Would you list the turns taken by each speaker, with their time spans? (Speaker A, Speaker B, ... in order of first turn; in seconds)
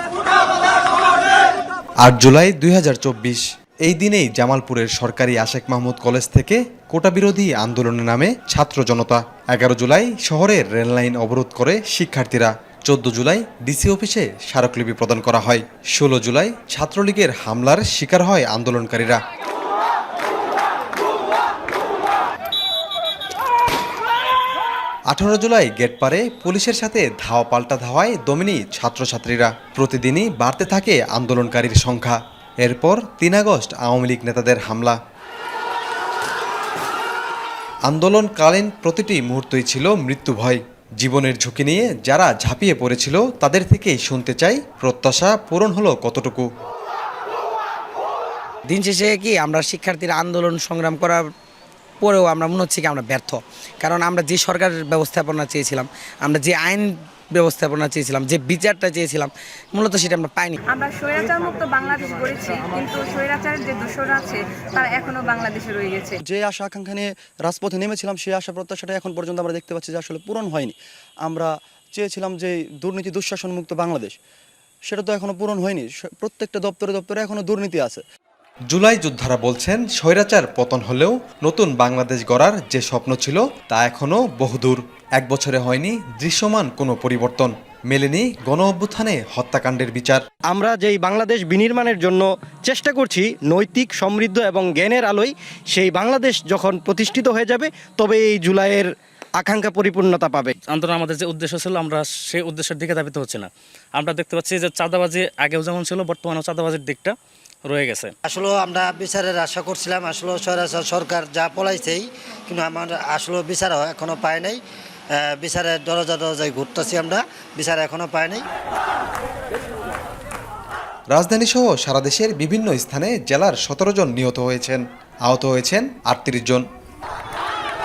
Speaker A: 2.0-19.2, 25.1-35.0, 37.9-46.5, 78.7-90.2, 121.1-126.6
Speaker B: 48.7-51.3, 52.0-60.6
Speaker C: 60.7-66.2
Speaker D: 66.2-74.2, 74.9-78.0, 92.9-94.1, 96.0-96.4, 97.9-98.8, 99.5-100.5
Speaker E: 90.5-98.9, 99.4-100.5
Speaker F: 100.7-108.1
Speaker G: 108.2-114.6, 115.1-118.5